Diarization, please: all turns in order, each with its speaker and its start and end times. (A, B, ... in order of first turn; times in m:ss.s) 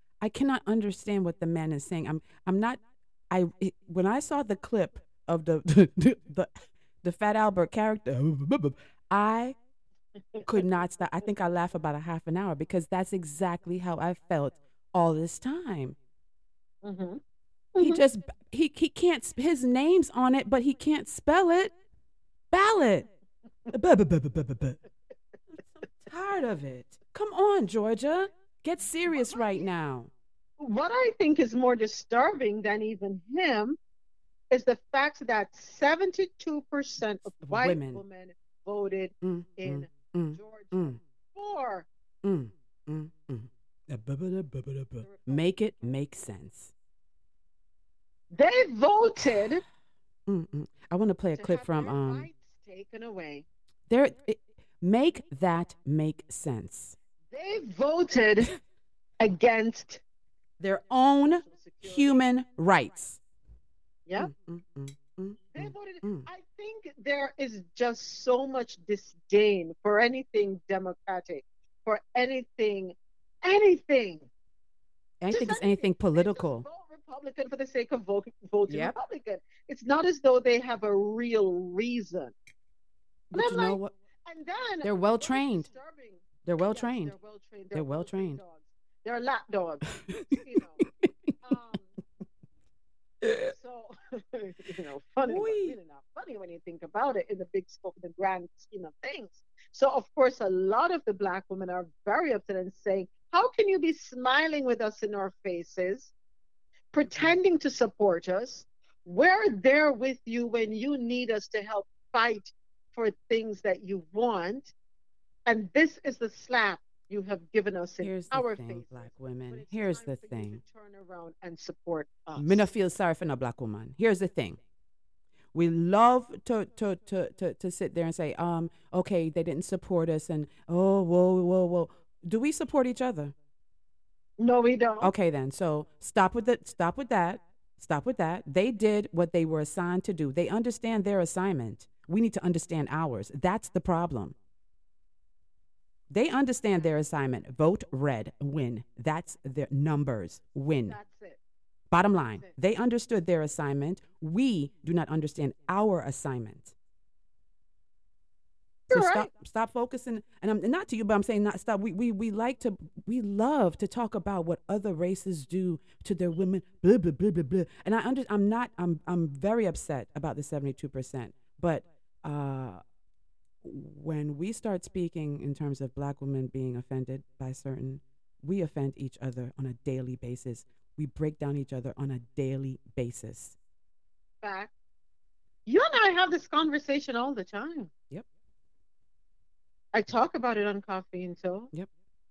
0:00.2-0:06.5 A
0:07.0-0:09.6 A
0:10.4-0:16.0 A
0:16.8-0:17.2 B
0:17.8-0:18.0 B
0:17.8-0:21.7 A
0:22.5-0:23.1 A
0:23.7-0:24.8 A
0:25.7-0:30.1 A
0:29.1-0:29.7 B
0:30.6-0:33.8 B
0:34.5-0:41.9 B
0:37.4-0:38.0 A
0:39.2-0:41.0 A
0:42.2-0:46.7 A
0:45.0-0:45.5 B
0:48.3-0:49.6 B
0:50.3-0:52.3 A
0:51.4-0:53.4 B
0:53.9-0:57.0 A
0:57.3-0:58.5 B
0:59.2-1:00.0 B
1:00.6-1:03.2 A
1:01.3-1:02.2 B
1:04.2-1:06.3 A
1:05.5-1:14.3 B
1:15.2-1:16.7 A
1:15.3-1:22.3 B
1:18.7-1:19.0 A
1:23.3-1:23.9 A
1:23.3-1:30.8 B
1:24.8-1:25.7 A
1:26.4-1:27.1 A
1:27.7-1:28.4 A
1:30.1-1:30.3 A
1:30.9-1:31.3 A
1:31.4-1:31.9 B
1:33.2-1:33.5 A
1:33.5-1:46.1 B
1:35.2-1:35.8 A
1:46.9-1:54.7 B
1:47.1-1:47.4 A
1:55.5-2:02.6 B
1:58.0-2:00.6 A
2:02.4-2:04.6 A
2:05.5-2:13.4 A
2:14.4-2:15.1 B
2:15.0-2:24.4 A
2:26.1-2:31.0 A
2:26.6-2:26.9 B
2:30.8-2:31.4 B
2:31.9-2:36.7 A
2:38.9-2:39.3 B
2:38.9-2:52.8 A
2:53.6-3:03.6 A
3:04.4-3:04.7 B
3:05.7-3:07.9 B
3:09.9-3:11.7 B